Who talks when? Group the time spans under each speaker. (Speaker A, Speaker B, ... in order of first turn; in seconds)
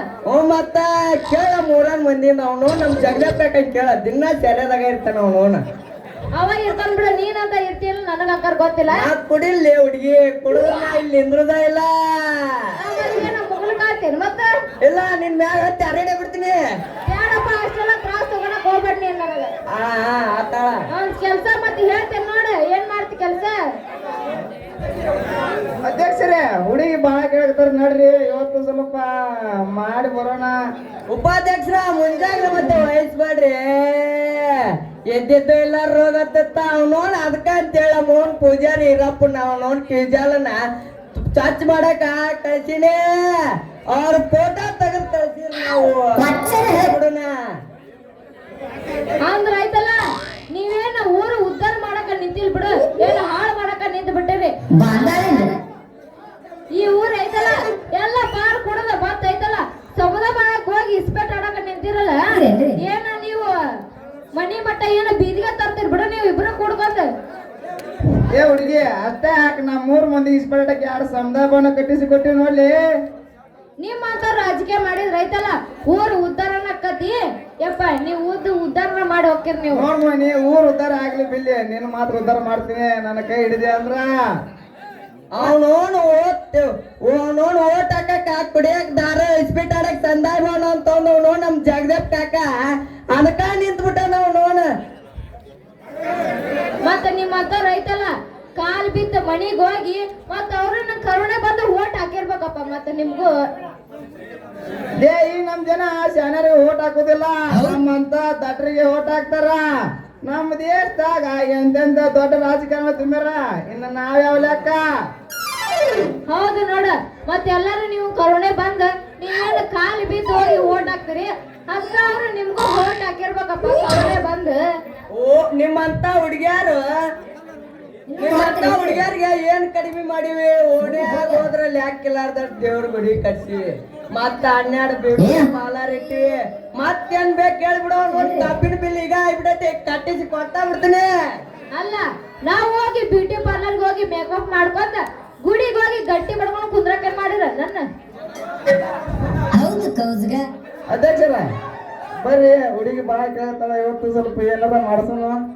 Speaker A: 0.2-5.6, 8.9-12.7, 14.8-16.6, 19.7-20.8, 31.1-40.6, 41.3-43.0, 43.9-47.3, 85.3-92.6, 93.1-94.7, 125.1-126.9, 128.2-141.1
Speaker B: 6.3-9.1, 10.6-10.9, 12.8-14.5, 17.1-19.5, 20.9-23.6, 49.2-50.0, 50.5-54.5, 56.7-63.6, 64.3-67.1, 73.8-79.8, 96.8-103.5, 116.3-124.6, 128.2-128.4, 141.7-147.8
Speaker C: 25.8-30.6, 68.3-72.8, 79.7-84.1, 105.0-109.6, 110.2-114.8, 150.9-151.5, 152.2-155.4
Speaker D: 46.2-46.9, 54.7-55.5, 62.3-62.8, 128.2-129.0, 130.9-131.4, 135.2-135.5, 138.1-138.5, 149.5-150.5